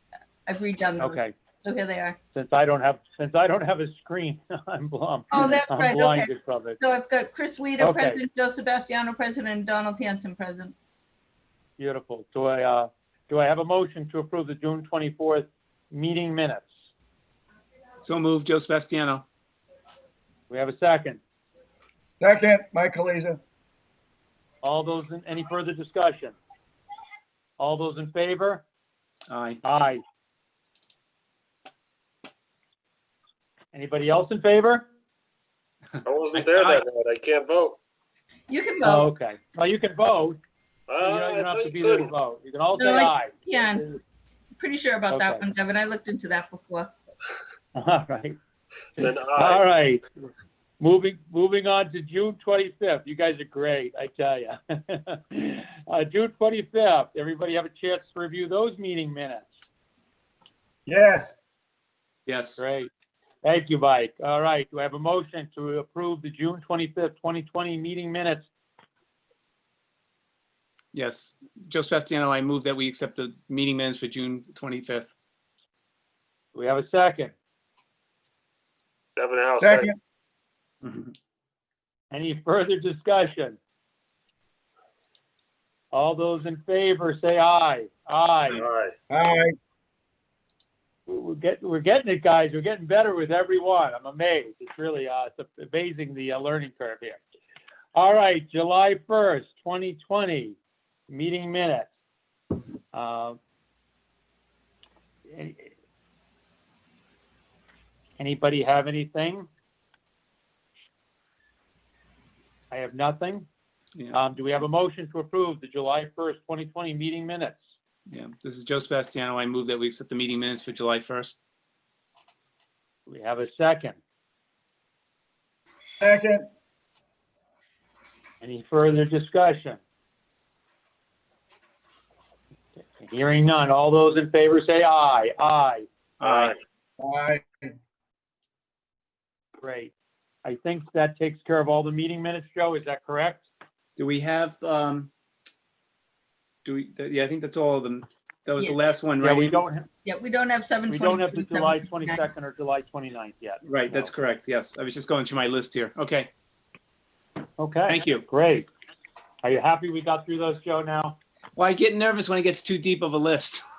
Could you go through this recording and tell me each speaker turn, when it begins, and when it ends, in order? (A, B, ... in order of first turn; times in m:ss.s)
0:00.4-0:02.2 A
0:01.0-0:01.3 B
0:02.3-0:06.8 B
0:05.3-0:10.7 A
0:07.8-0:08.2 B
0:11.8-0:16.7 B
0:18.0-0:19.2 C
0:20.5-0:21.2 B
0:22.2-0:23.4 D
0:24.6-0:26.4 B
0:27.6-0:28.6 B
0:29.3-0:29.6 C
0:29.6-0:30.0 B
0:33.7-0:34.8 B
0:36.0-0:37.8 E
0:38.5-0:39.1 A
0:38.8-0:40.4 B
0:40.9-0:42.1 E
0:41.0-0:43.9 B
0:42.7-0:43.9 A
0:44.6-0:46.9 A
0:45.1-0:45.4 B
0:47.7-0:48.4 B
0:49.0-0:50.0 B
0:49.0-0:49.6 E
0:50.8-0:59.5 B
1:00.8-1:01.3 D
1:02.3-1:02.6 C
1:02.6-1:02.9 B
1:03.4-1:08.5 B
1:10.9-1:15.1 C
1:16.5-1:17.3 B
1:19.2-1:19.9 E
1:19.6-1:20.0 D
1:20.8-1:21.1 C
1:22.1-1:23.6 B
1:25.9-1:28.6 B
1:28.5-1:28.9 E
1:29.1-1:29.5 D
1:31.1-1:37.2 B
1:37.9-1:40.6 B
1:41.1-1:41.9 B
1:42.9-1:43.4 B
1:45.3-1:45.7 B
1:48.2-1:49.5 B
1:52.7-1:53.5 B
1:54.1-1:57.7 B
1:58.1-2:01.4 C
2:03.1-2:04.0 B
2:06.0-2:06.5 D
2:08.4-2:09.8 B
2:12.8-2:15.9 B
2:16.2-2:16.6 C
2:16.2-2:16.6 E
2:17.0-2:17.7 D
2:19.6-2:23.4 B
2:24.0-2:25.1 C
2:26.6-2:29.6 C
2:29.2-2:29.9 B
2:30.0-2:32.2 A
2:30.9-2:34.1 B
2:33.6-2:36.3 C
2:37.6-2:38.7 B
2:37.9-2:38.2 C
2:39.4-2:41.2 B
2:41.6-2:43.6 C